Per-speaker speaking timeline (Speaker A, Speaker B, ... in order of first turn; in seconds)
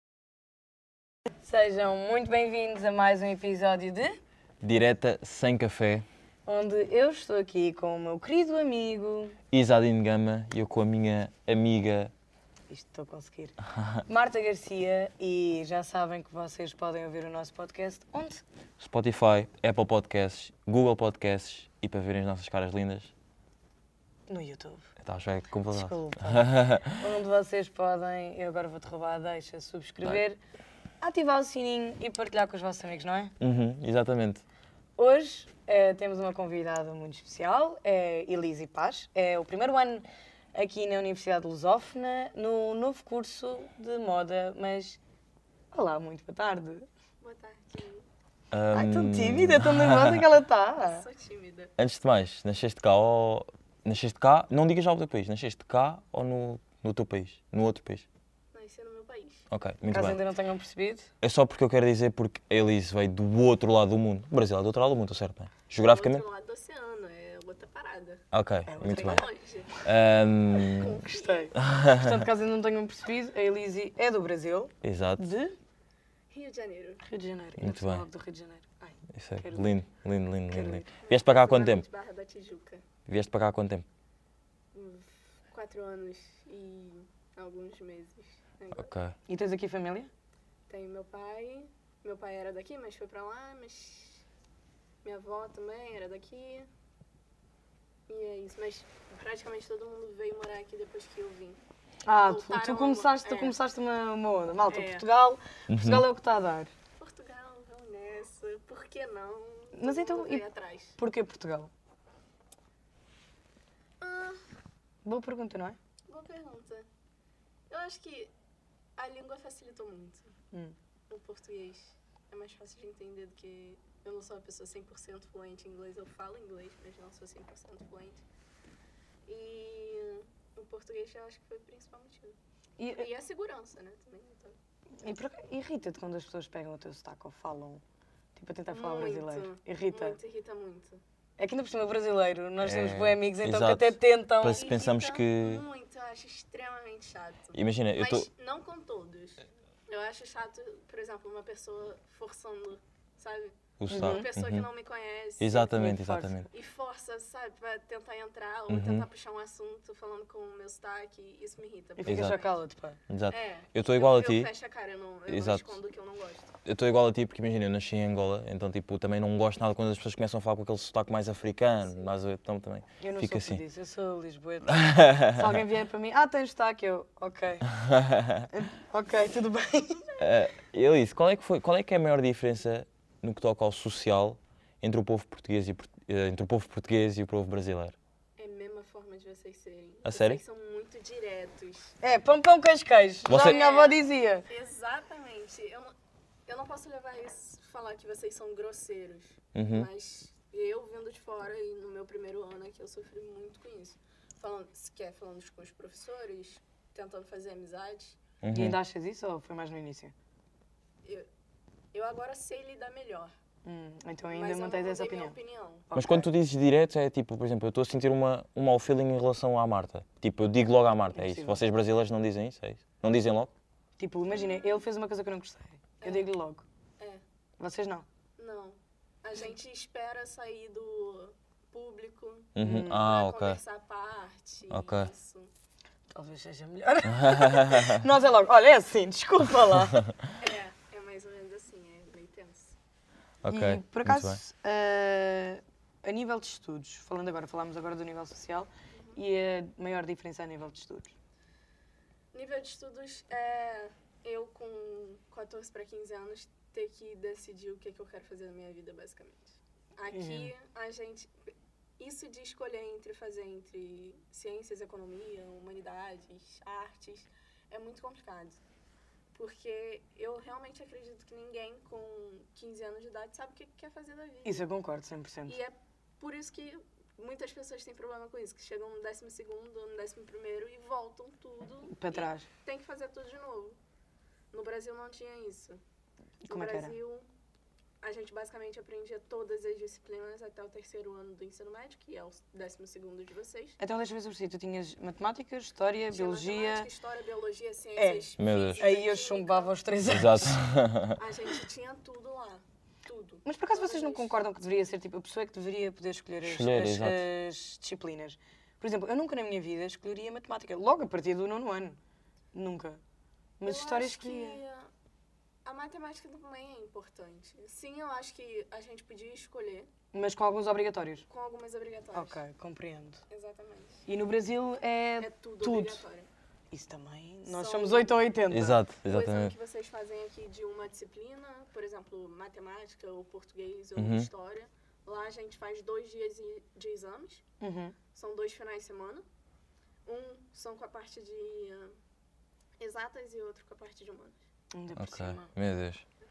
Speaker A: 1.4-4.2, 6.5-9.4, 12.7-18.4, 24.3-24.9, 25.7-30.4, 31.0-33.3, 35.0-45.0, 45.7-46.9, 48.7-51.0, 59.9-61.1, 68.7-69.2, 71.0-75.6, 77.0-79.8, 80.5-80.9, 89.3-90.1, 102.0-106.7, 109.7-110.4, 111.0-111.7, 115.0-115.8, 132.8-133.1, 135.0-137.8, 138.3-140.2, 141.4-144.8, 153.9-154.3, 155.7-156.4, 162.0-163.0, 173.0-177.7, 178.5-180.0, 192.0-194.4, 208.5-210.1, 213.6-215.3, 215.9-216.3, 221.1-221.6, 224.0-226.6, 227.6-228.1, 232.6-233.1, 236.1-240.0, 243.5-251.1, 260.1-260.5, 274.4-275.6, 281.9-282.4, 286.4-286.9, 293.8-296.9, 297.9-300.6, 303.4-312.0, 312.5-313.0, 313.6-314.6, 320.1-321.2, 322.1-323.2, 324.1-326.0, 326.7-328.8, 337.6-337.9, 344.7-345.5
Speaker B: 4.6-6.0, 9.5-12.1, 18.8-23.1, 25.0-27.0, 33.4-34.4, 48.5-50.3, 51.8-58.0, 59.5-60.2, 61.2-66.2, 68.3-69.3, 69.8-71.0, 71.6-72.2, 74.8-75.2, 77.6-78.1, 79.1-81.8, 83.0-83.8, 88.8-89.1, 105.7-106.0, 142.6-145.6, 147.5-148.3, 153.8-154.7, 155.4-156.5, 158.7-159.1, 162.0-162.4, 163.1-164.5, 165.3-165.7, 166.6-173.6, 174.7-175.6, 177.8-178.4, 180.2-187.9, 190.0-190.4, 193.3-193.6, 199.5-199.9, 208.4-208.8, 215.9-223.5, 232.6-233.6, 234.7-235.1, 237.3-237.9, 243.4-244.4, 298.4-298.8, 300.1-301.2, 306.4-307.3, 328.5-329.5, 333.9-334.3, 345.0-346.0
Speaker C: 47.2-48.1, 50.8-51.7, 58.5-59.5, 65.8-68.2, 68.8-69.8, 70.5-71.5, 76.3-77.0, 81.0-82.8, 84.7-88.9, 90.7-94.2, 95.0-96.7, 98.1-103.6, 104.7-105.1, 107.0-111.0, 114.0-114.4, 116.1-116.9, 117.7-118.3, 119.0-120.3, 121.1-128.2, 129.2-132.3, 132.9-134.6, 138.7-141.0, 144.5-155.7, 156.5-162.6, 163.3-166.5, 171.9-172.1, 179.8-180.4, 188.4-191.9, 193.3-195.9, 196.5-208.2, 211.9-213.3, 214.3-215.9, 224.3-224.8, 226.0-226.3, 228.4-235.5, 240.4-242.8, 248.9-249.2, 252.3-261.3, 262.0-268.6, 269.3-274.6, 275.4-283.8, 284.5-285.8, 286.5-287.3, 288.0-293.8, 296.1-299.8, 301.2-304.4, 313.6-314.9, 315.6-319.9, 321.3-322.4, 323.3-324.1, 325.2-326.3, 327.4-328.3, 329.1-337.4, 338.1-339.2, 340.1-341.9, 342.8-344.4